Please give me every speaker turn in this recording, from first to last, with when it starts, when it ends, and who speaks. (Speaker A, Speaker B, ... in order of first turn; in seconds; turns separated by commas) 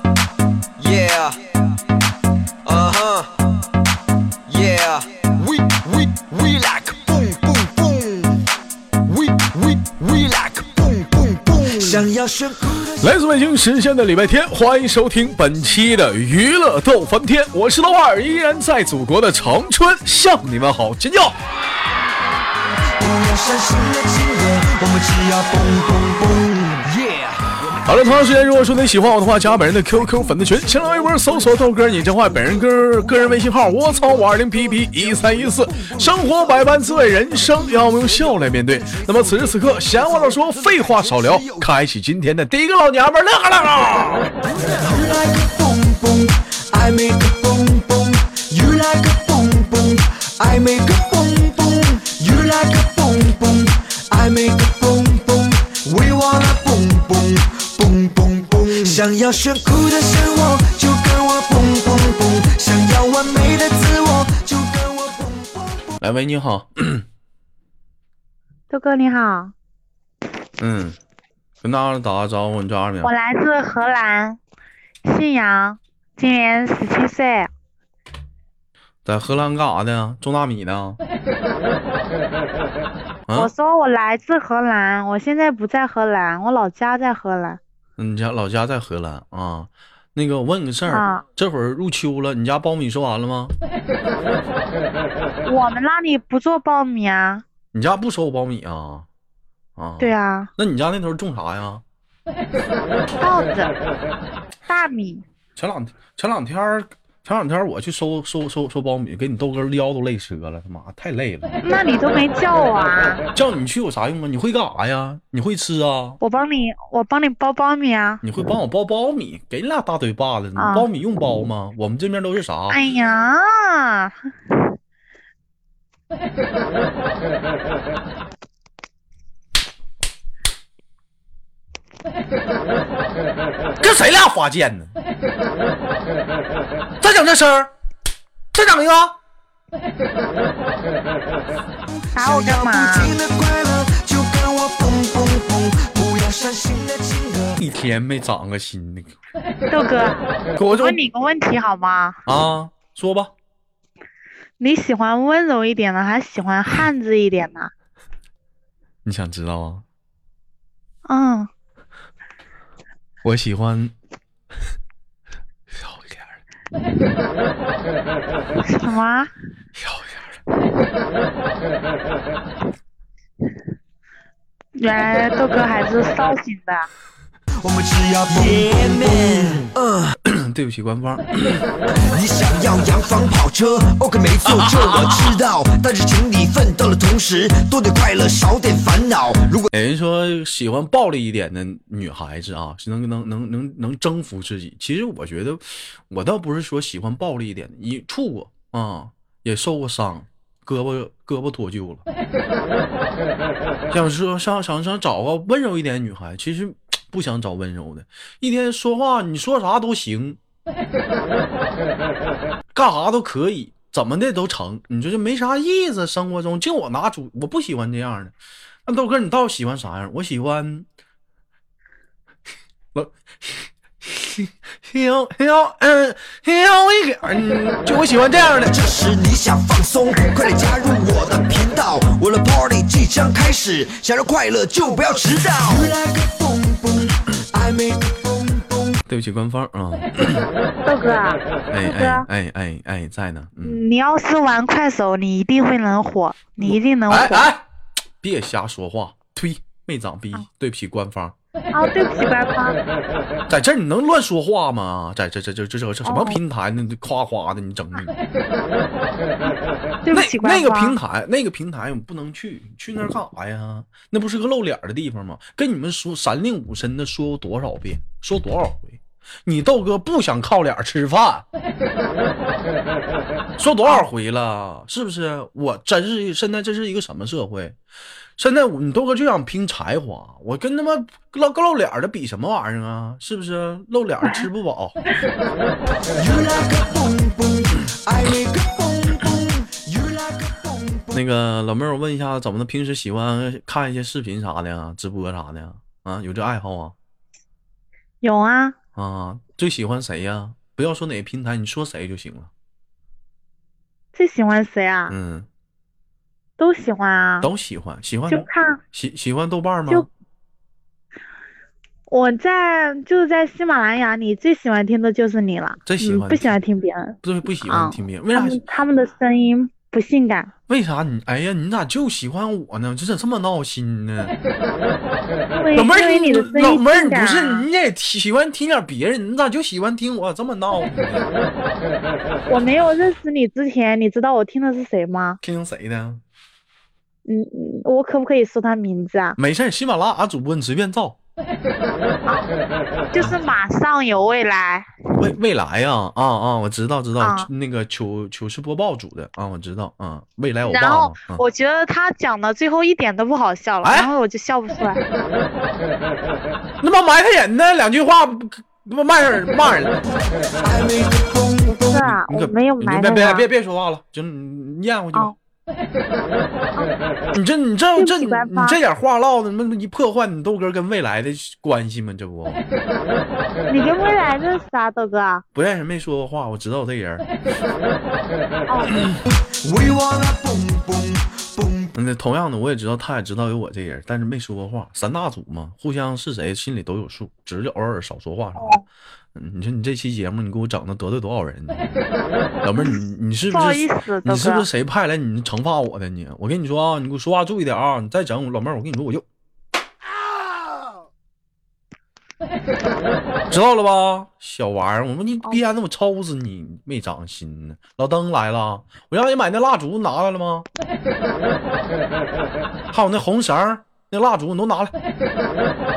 Speaker A: 0.8-1.3, Speaker A: 2.7-3.2, Speaker A: 4.5-8.3, Speaker A: 9.1-13.1, Speaker B: 13.0-21.4, Speaker A: 23.0-27.4, Speaker B: 27.9-44.4, Speaker A: 30.3-41.7, Speaker A: 44.5-66.0, Speaker B: 66.0-67.1, Speaker C: 68.7-69.5, Speaker B: 70.6-71.0, Speaker B: 71.6-73.1, Speaker C: 73.0-74.4, Speaker C: 75.0-77.5, Speaker B: 79.0-81.0, Speaker C: 83.3-87.6, Speaker B: 88.0-93.5, Speaker C: 90.9-91.2, Speaker C: 95.5-97.4, Speaker B: 97.7-99.1, Speaker B: 99.8-101.8, Speaker C: 100.0-100.5, Speaker C: 103.2-103.7, Speaker C: 104.7-105.2, Speaker B: 105.6-111.6, Speaker C: 111.6-113.2, Speaker B: 113.3-116.2, Speaker C: 116.2-118.2, Speaker B: 118.2-122.8, Speaker C: 120.6-120.9, Speaker C: 122.7-124.7, Speaker B: 133.8-134.9, Speaker B: 137.0-137.7, Speaker B: 138.5-139.2, Speaker A: 142.1-147.6, Speaker C: 142.1-143.2, Speaker B: 147.6-149.2, Speaker C: 149.7-152.2, Speaker B: 150.6-151.0, Speaker B: 152.3-153.3, Speaker C: 154.6-157.7, Speaker B: 159.1-159.8, Speaker C: 161.1-161.5, Speaker B: 163.2-163.9, Speaker B: 165.7-166.4, Speaker C: 168.6-169.3, Speaker B: 169.8-170.3, Speaker C: 174.8-176.9, Speaker A: 177.6-180.0, Speaker B: 180.2-181.7, Speaker A: 182.0-189.7, Speaker B: 184.5-185.4, Speaker B: 189.7-202.0, Speaker B: 203.9-210.4, Speaker B: 212.7-218.3, Speaker B: 218.9-220.9, Speaker B: 222.9-228.9, Speaker A: 228.6-239.0, Speaker B: 239.1-240.5, Speaker C: 240.9-242.3, Speaker B: 241.7-243.8, Speaker C: 243.6-247.5, Speaker B: 246.6-247.6, Speaker B: 248.2-251.4, Speaker C: 251.7-252.8, Speaker B: 253.5-258.1, Speaker C: 256.0-256.4, Speaker C: 260.0-261.0, Speaker B: 260.1-271.5, Speaker B: 273.6-277.8, Speaker B: 278.4-285.0, Speaker A: 286.1-291.2, Speaker B: 291.1-297.0, Speaker C: 298.2-298.8, Speaker B: 298.9-302.5, Speaker C: 304.1-305.1, Speaker B: 305.1-305.5, Speaker C: 306.6-307.5, Speaker B: 307.4-310.1, Speaker C: 308.3-308.8, Speaker C: 312.1-320.5, Speaker B: 315.9-316.6, Speaker B: 317.2-318.6, Speaker B: 320.7-324.4, Speaker C: 325.5-327.7, Speaker B: 325.7-331.3, Speaker C: 332.5-335.4, Speaker B: 335.4-336.2, Speaker C: 337.3-339.4, Speaker B: 339.4-341.2, Speaker C: 343.1-345.0, Speaker B: 345.2-351.4, Speaker C: 347.2-347.5, Speaker C: 350.6-355.0, Speaker B: 353.8-354.1, Speaker B: 356.8-360.0, Speaker A: 360.6-362.0, Speaker C: 361.7-363.5, Speaker B: 362.0-365.4, Speaker B: 367.3-372.6, Speaker C: 368.0-368.8, Speaker C: 373.7-375.4, Speaker B: 375.5-377.3, Speaker C: 378.7-379.0, Speaker B: 378.9-379.2, Speaker A: 379.3-381.9, Speaker B: 381.9-388.8, Speaker C: 388.6-388.8, Speaker B: 389.4-391.9, Speaker B: 392.6-399.2, Speaker C: 393.5-394.7, Speaker B: 403.5-410.7, Speaker B: 412.9-414.9